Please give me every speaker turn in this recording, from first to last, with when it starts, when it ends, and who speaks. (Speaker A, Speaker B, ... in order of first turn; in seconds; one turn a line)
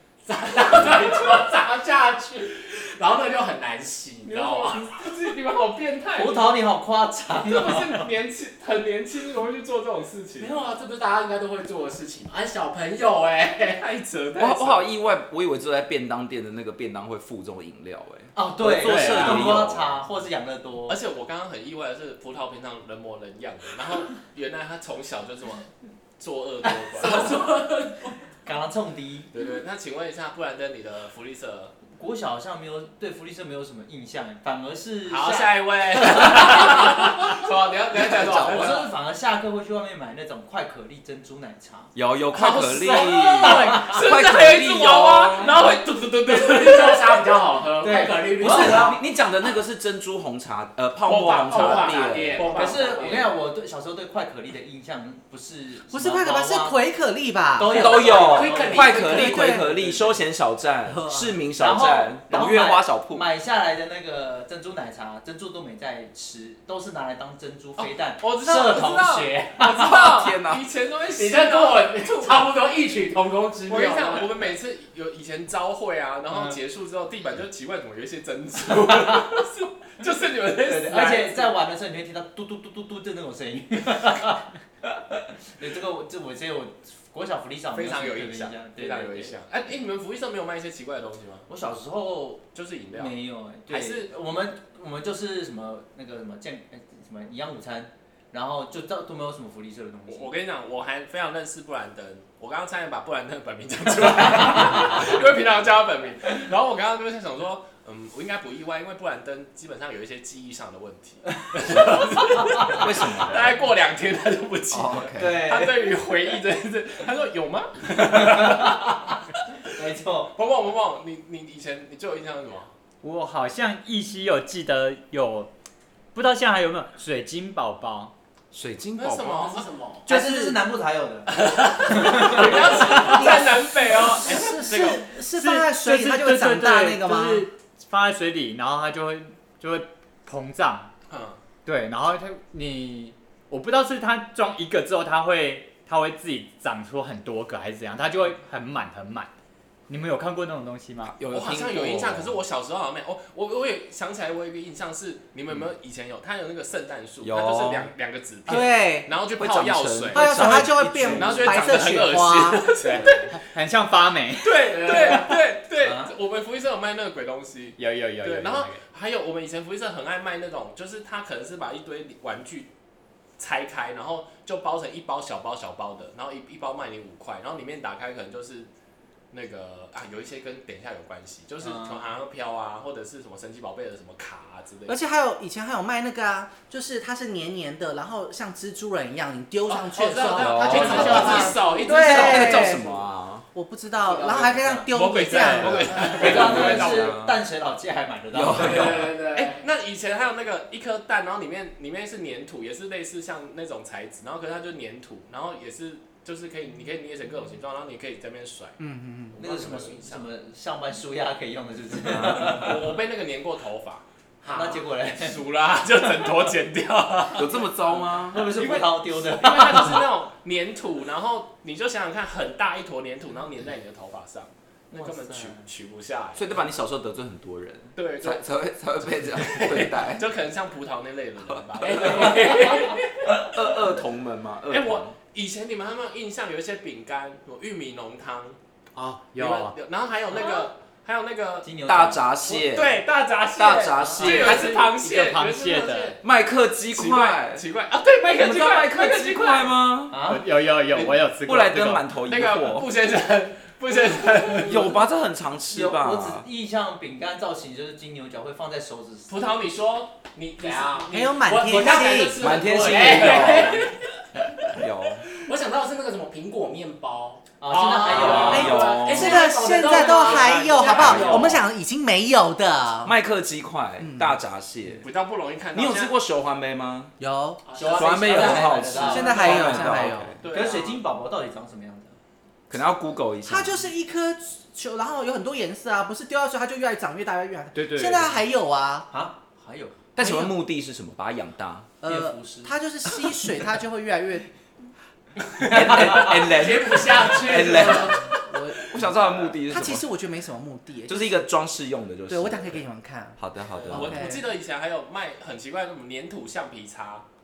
Speaker A: 0.2-5.0
Speaker B: 4.3-6.6
Speaker C: 6.2-8.1
Speaker B: 7.3-10.6
Speaker A: 10.4-13.8
Speaker B: 13.8-14.9
Speaker D: 14.4-20.0
Speaker C: 18.4-21.0
Speaker E: 18.8-19.6
Speaker B: 20.9-27.4
Speaker A: 27.0-28.1
Speaker C: 27.0-27.4
Speaker C: 28.4-29.3
Speaker B: 29.3-31.7
Speaker C: 31.9-37.3
Speaker B: 35.1-38.9
Speaker C: 38.1-41.9
Speaker D: 38.1-38.7
Speaker D: 42.0-45.6
Speaker A: 42.4-44.1
Speaker B: 42.9-47.2
Speaker C: 43.4-43.8
Speaker A: 45.3-49.0
Speaker C: 47.8-49.0
Speaker D: 48.4-52.5
Speaker A: 51.1-53.3
Speaker B: 51.1-53.3
Speaker C: 52.5-56.8
Speaker F: 55.9-58.1
Speaker C: 57.6-60.0
Speaker D: 57.7-63.3
Speaker A: 57.9-59.5
Speaker F: 59.0-60.0
Speaker F: 60.9-61.4
Speaker C: 61.6-69.9
Speaker B: 67.8-72.5
Speaker A: 68.5-69.7
Speaker D: 69.8-70.6
Speaker A: 71.1-74.3
Speaker B: 73.7-81.5
Speaker C: 76.3-76.6
Speaker C: 78.9-79.2
Speaker C: 80.6-89.3
Speaker B: 87.7-91.5
Speaker C: 91.5-100.3
Speaker B: 92.5-93.2
Speaker B: 93.7-94.1
Speaker B: 100.1-119.2
Speaker D: 112.7-113.6
Speaker D: 114.7-115.4
Speaker C: 115.2-115.8
Speaker C: 118.1-119.0
Speaker C: 119.7-120.3
Speaker B: 120.3-122.7
Speaker E: 123.0-125.5
Speaker E: 126.1-128.1
Speaker D: 128.5-129.6
Speaker B: 129.0-129.7
Speaker A: 129.5-130.1
Speaker E: 130.1-130.6
Speaker C: 130.1-132.9
Speaker B: 131.4-135.0
Speaker A: 132.3-133.1
Speaker F: 132.9-137.5
Speaker E: 135.3-140.9
Speaker B: 141.1-141.4
Speaker E: 141.7-149.3
Speaker E: 149.9-151.2
Speaker D: 151.2-152.4
Speaker B: 151.3-163.3
Speaker D: 157.2-157.9
Speaker F: 158.5-159.1
Speaker D: 159.3-161.8
Speaker F: 160.1-162.8
Speaker E: 162.8-165.1
Speaker B: 164.4-172.7
Speaker A: 164.7-165.3
Speaker C: 164.9-165.2
Speaker C: 165.8-166.1
Speaker E: 167.8-168.8
Speaker B: 173.4-178.7
Speaker B: 179.3-185.0
Speaker C: 181.6-182.1
Speaker F: 184.9-192.8
Speaker B: 189.7-192.9
Speaker A: 190.0-192.5
Speaker D: 190.4-193.5
Speaker C: 190.9-191.4
Speaker F: 193.5-196.5
Speaker A: 194.1-194.5
Speaker C: 194.2-194.9
Speaker B: 194.9-197.2
Speaker D: 195.7-197.4
Speaker C: 195.8-199.1
Speaker D: 198.3-199.2
Speaker A: 198.6-199.6
Speaker B: 198.7-208.8
Speaker F: 208.8-209.4
Speaker B: 209.3-210.3
Speaker C: 209.4-212.9
Speaker D: 212.1-212.6
Speaker B: 212.3-214.1
Speaker A: 214.4-214.8
Speaker C: 214.5-215.4
Speaker B: 215.0-217.6
Speaker D: 217.3-218.5
Speaker C: 218.3-220.0
Speaker B: 218.5-226.6
Speaker C: 224.9-225.7
Speaker D: 226.3-230.3
Speaker B: 228.0-228.5
Speaker B: 229.2-233.5
Speaker D: 231.5-232.4
Speaker D: 233.3-235.1
Speaker B: 234.7-238.6
Speaker E: 239.0-239.8
Speaker B: 239.4-241.7
Speaker C: 241.6-242.2
Speaker D: 241.9-243.0
Speaker B: 242.4-246.2
Speaker D: 243.6-244.7
Speaker E: 244.2-246.2
Speaker D: 246.2-247.6
Speaker B: 246.9-249.7
Speaker D: 248.3-250.2
Speaker C: 250.1-250.5
Speaker E: 250.2-252.1
Speaker D: 251.4-252.9
Speaker B: 252.3-254.8
Speaker D: 254.6-256.5
Speaker C: 255.7-259.3
Speaker B: 259.3-261.1
Speaker A: 260.6-263.9
Speaker F: 261.1-262.4
Speaker D: 262.4-263.9
Speaker B: 262.7-263.9
Speaker D: 264.7-265.3
Speaker A: 265.4-271.6
Speaker C: 267.6-268.8
Speaker D: 268.1-269.4
Speaker B: 268.1-268.6
Speaker F: 268.5-273.1
Speaker B: 270.0-271.4
Speaker D: 270.9-271.6
Speaker D: 273.0-275.1
Speaker F: 274.0-274.4
Speaker B: 275.0-276.1
Speaker D: 275.7-277.1
Speaker F: 277.2-277.7
Speaker A: 277.7-279.9
Speaker C: 277.8-282.2
Speaker D: 277.9-280.4
Speaker F: 279.0-280.3
Speaker B: 279.4-281.0
Speaker D: 282.7-283.8
Speaker F: 283.5-289.1
Speaker E: 287.8-288.4
Speaker C: 289.1-290.0
Speaker D: 290.2-291.9
Speaker F: 290.2-290.6
Speaker F: 292.0-294.5
Speaker C: 292.0-292.8
Speaker D: 295.6-298.2
Speaker C: 295.7-296.4
Speaker A: 296.2-298.4
Speaker F: 298.3-299.0
Speaker D: 298.9-300.1
Speaker F: 299.7-301.4
Speaker D: 301.1-302.8
Speaker F: 302.3-303.4
Speaker D: 303.4-304.3
Speaker B: 303.8-307.2
Speaker F: 303.9-304.4